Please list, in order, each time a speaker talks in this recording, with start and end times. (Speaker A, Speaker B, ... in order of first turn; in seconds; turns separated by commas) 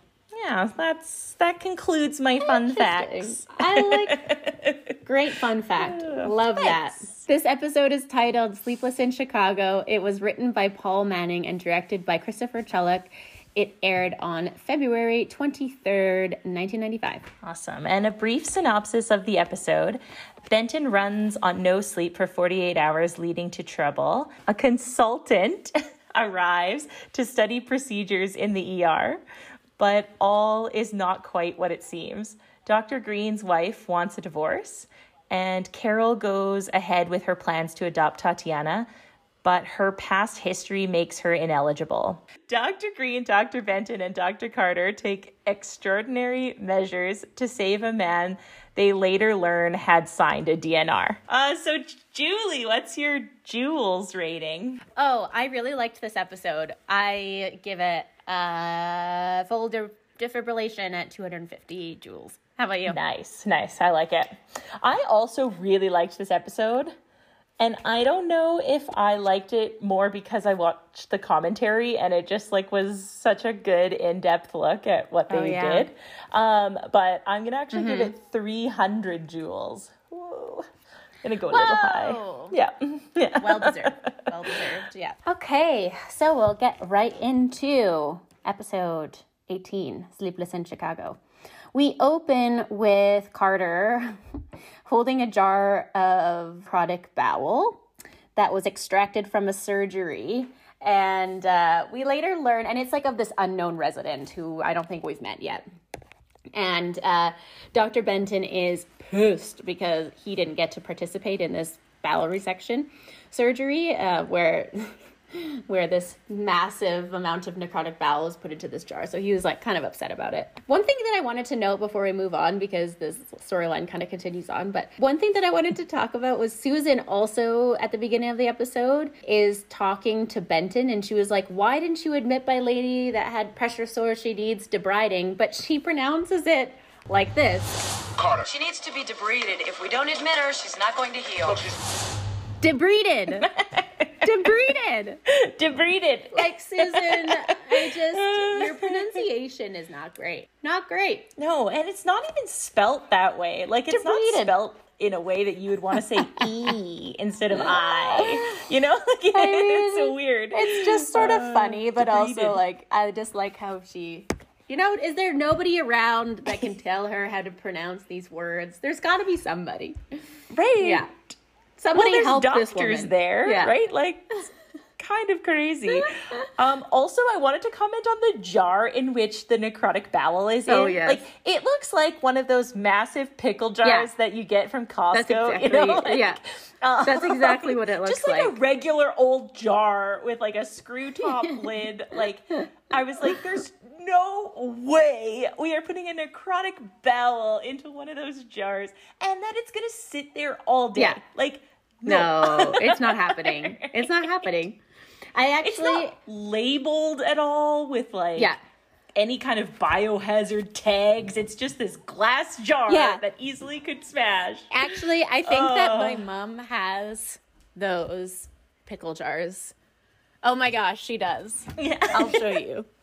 Speaker A: 0.3-5.0, Speaker B: 2.4-4.3, Speaker B: 5.0-17.3, Speaker A: 5.8-7.2, Speaker A: 17.4-29.2, Speaker A: 29.8-38.9, Speaker A: 39.4-54.8, Speaker B: 55.0-63.0, Speaker A: 62.9-66.9, Speaker A: 67.6-80.7, Speaker B: 75.3-75.9, Speaker B: 77.7-78.1, Speaker A: 81.2-84.6, Speaker B: 81.5-82.5, Speaker B: 83.4-91.2, Speaker B: 91.7-94.2, Speaker B: 94.8-97.8, Speaker B: 98.3-105.6, Speaker B: 106.5-137.8, Speaker C: 138.3-141.7, Speaker B: 142.6-143.5, Speaker A: 143.4-144.5, Speaker B: 144.2-145.2, Speaker A: 145.3-149.1, Speaker B: 146.3-151.3, Speaker A: 151.3-162.6, Speaker B: 153.9-154.5, Speaker B: 156.1-156.5, Speaker B: 157.5-158.6, Speaker B: 159.3-170.2, Speaker A: 170.5-171.4, Speaker B: 170.8-171.1, Speaker B: 171.8-173.8, Speaker A: 171.9-204.5, Speaker B: 175.9-176.3, Speaker B: 180.7-181.2, Speaker B: 183.8-184.1, Speaker B: 185.1-186.4, Speaker B: 187.0-188.6, Speaker B: 200.9-201.2, Speaker B: 202.0-204.8, Speaker B: 205.3-206.1, Speaker A: 205.6-208.5, Speaker A: 209.1-214.8, Speaker B: 212.9-213.2, Speaker B: 214.7-219.7, Speaker A: 215.4-216.2, Speaker B: 220.4-222.9, Speaker A: 221.8-222.5